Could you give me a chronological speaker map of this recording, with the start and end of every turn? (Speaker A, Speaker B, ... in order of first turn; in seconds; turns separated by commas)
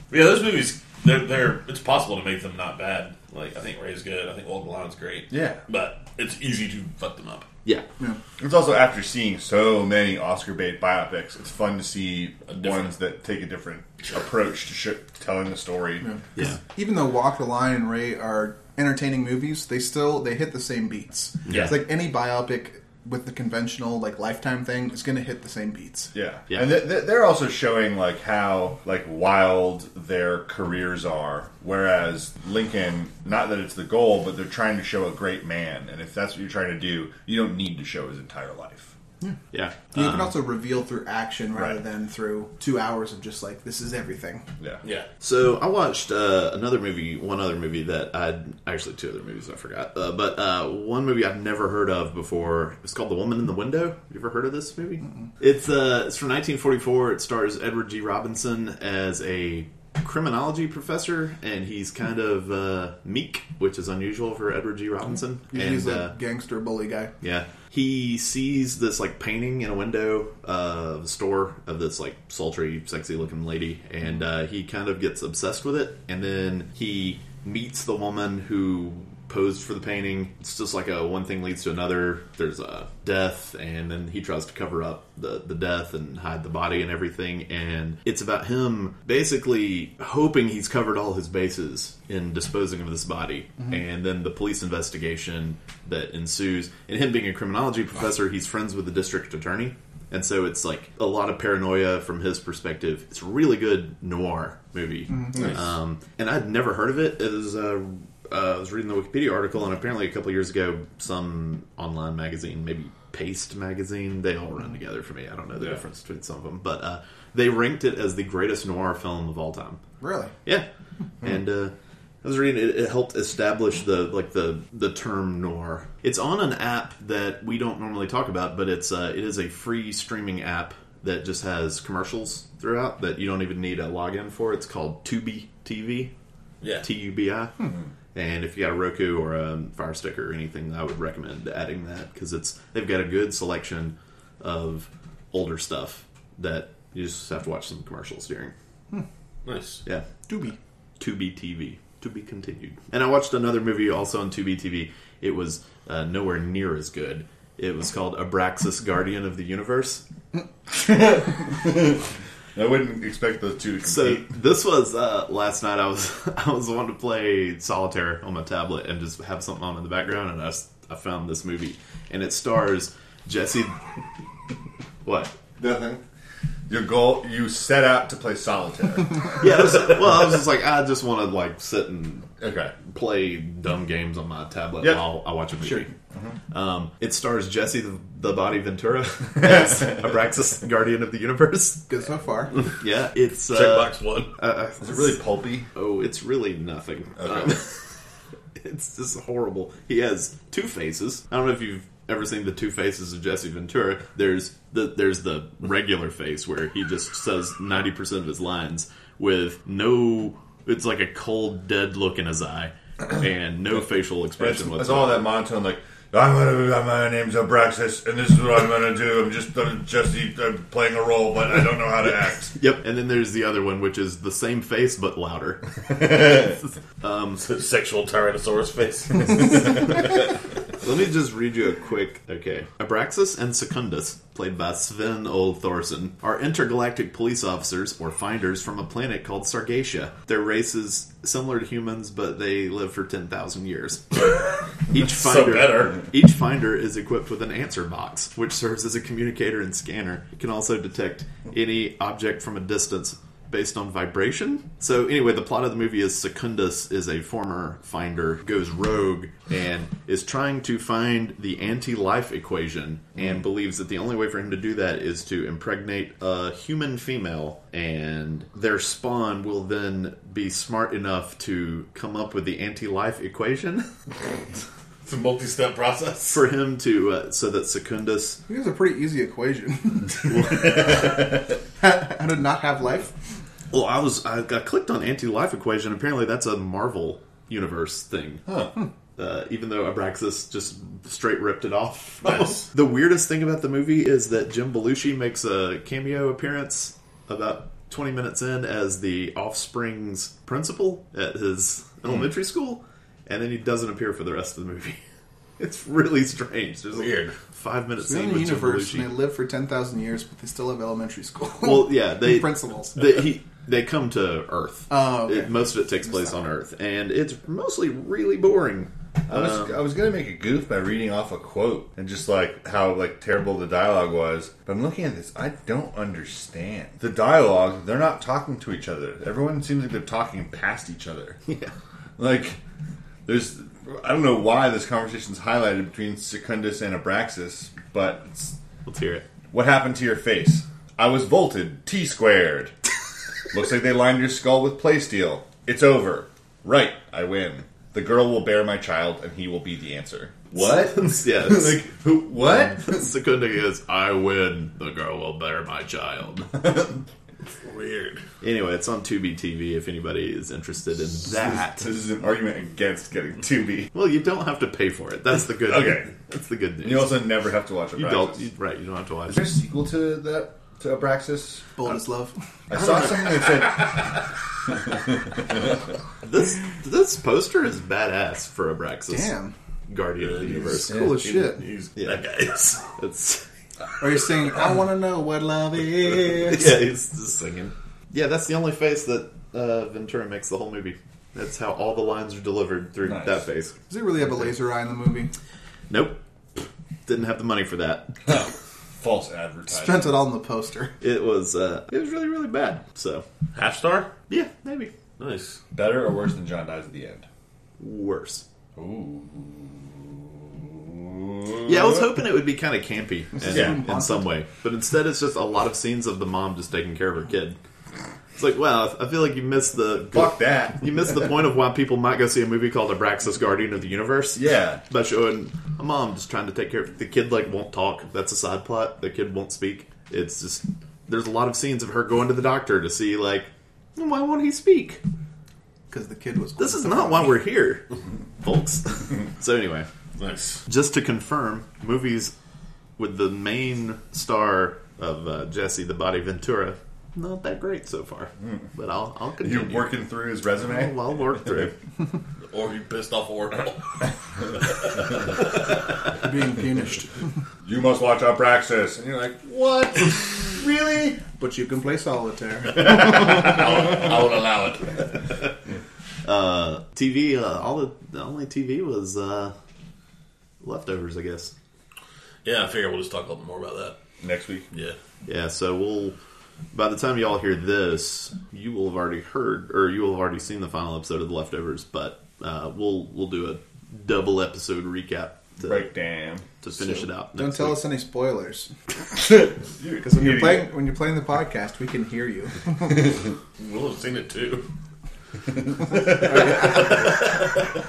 Speaker A: 0.1-7.5, Speaker B: 5.3-5.6, Speaker B: 8.4-16.1, Speaker A: 12.5-12.9, Speaker C: 16.0-26.1, Speaker D: 21.5-21.8, Speaker B: 26.1-38.9, Speaker D: 26.5-26.8, Speaker D: 39.5-40.3, Speaker C: 39.9-44.5, Speaker D: 45.2-66.1, Speaker C: 65.5-67.1, Speaker D: 67.2-119.8, Speaker C: 105.1-105.5, Speaker B: 105.3-105.7, Speaker C: 120.0-120.3, Speaker D: 121.2-136.1, Speaker A: 136.6-136.9, Speaker D: 136.8-148.5, Speaker A: 149.4-149.8, Speaker D: 149.8-160.0, Speaker B: 160.7-164.3, Speaker D: 163.8-173.8, Speaker D: 175.0-175.3, Speaker B: 175.6-176.0, Speaker B: 176.7-179.4, Speaker D: 179.4-182.3, Speaker B: 182.4-182.7, Speaker D: 182.8-185.9, Speaker B: 186.1-186.4, Speaker D: 186.5-191.9, Speaker B: 189.4-190.0, Speaker C: 191.9-192.5, Speaker D: 192.8-195.2, Speaker A: 193.5-194.4, Speaker B: 194.8-195.7, Speaker D: 195.7-197.7, Speaker B: 197.2-197.6, Speaker D: 198.6-215.3, Speaker B: 214.4-222.6, Speaker D: 222.5-227.4, Speaker A: 227.4-229.8, Speaker D: 230.8-244.3, Speaker D: 244.9-273.9, Speaker A: 244.9-246.0, Speaker B: 263.2-263.4, Speaker A: 275.0-276.4, Speaker D: 276.3-278.4, Speaker C: 278.5-281.2, Speaker D: 280.3-280.9, Speaker C: 281.8-283.1, Speaker D: 283.7-288.5, Speaker B: 288.4-288.7, Speaker D: 289.1-305.0, Speaker A: 292.2-292.6, Speaker D: 305.6-309.1, Speaker A: 306.9-307.3, Speaker C: 308.0-313.0, Speaker D: 311.6-319.8, Speaker C: 314.9-316.4, Speaker B: 319.3-331.4, Speaker D: 331.5-331.7, Speaker B: 332.2-332.6, Speaker B: 333.2-338.6, Speaker D: 338.8-339.3, Speaker B: 339.5-342.7, Speaker B: 343.5-353.0, Speaker D: 350.5-351.8, Speaker D: 352.4-356.8, Speaker B: 356.6-356.9, Speaker A: 357.6-358.2, Speaker D: 358.4-361.9, Speaker B: 361.2-363.9, Speaker D: 363.9-367.3, Speaker B: 365.6-366.1, Speaker B: 366.8-368.4, Speaker D: 367.9-369.4, Speaker B: 369.3-371.7, Speaker C: 371.8-372.3, Speaker B: 372.7-374.1, Speaker D: 372.7-373.1, Speaker D: 376.2-379.3, Speaker C: 379.1-379.5, Speaker D: 379.9-381.2, Speaker A: 380.2-382.9, Speaker C: 380.9-381.6, Speaker B: 380.9-381.2, Speaker D: 381.9-382.2, Speaker D: 382.9-383.4, Speaker C: 384.0-386.7, Speaker D: 386.4-393.7, Speaker B: 393.0-393.4, Speaker C: 393.9-395.3, Speaker D: 395.9-398.4, Speaker B: 398.3-400.2, Speaker C: 399.7-400.9, Speaker D: 401.0-403.2, Speaker A: 403.5-404.1, Speaker D: 404.3-404.9, Speaker A: 405.2-405.6, Speaker B: 405.7-407.3, Speaker D: 407.8-408.4, Speaker B: 408.8-412.1, Speaker D: 411.6-417.6, Speaker C: 413.4-414.3, Speaker B: 413.5-413.8, Speaker D: 418.4-435.0, Speaker B: 420.1-421.2, Speaker B: 424.3-424.8, Speaker C: 435.9-437.4, Speaker D: 436.6-437.9, Speaker D: 438.4-439.9, Speaker A: 440.1-440.6, Speaker D: 440.6-442.3, Speaker D: 443.0-449.9, Speaker B: 449.4-451.0, Speaker D: 450.6-451.7, Speaker A: 452.5-455.4, Speaker C: 456.1-457.2, Speaker B: 457.6-461.2, Speaker C: 461.4-463.5, Speaker A: 462.8-465.2, Speaker D: 466.2-469.5, Speaker D: 470.6-471.5, Speaker A: 472.4-474.0, Speaker B: 474.2-474.7, Speaker D: 475.2-476.1, Speaker D: 476.7-485.9, Speaker B: 485.6-487.0, Speaker D: 486.6-487.8, Speaker C: 487.3-488.7, Speaker B: 489.1-490.7, Speaker C: 490.0-493.0, Speaker A: 493.6-494.6, Speaker B: 495.8-496.9, Speaker A: 496.5-496.8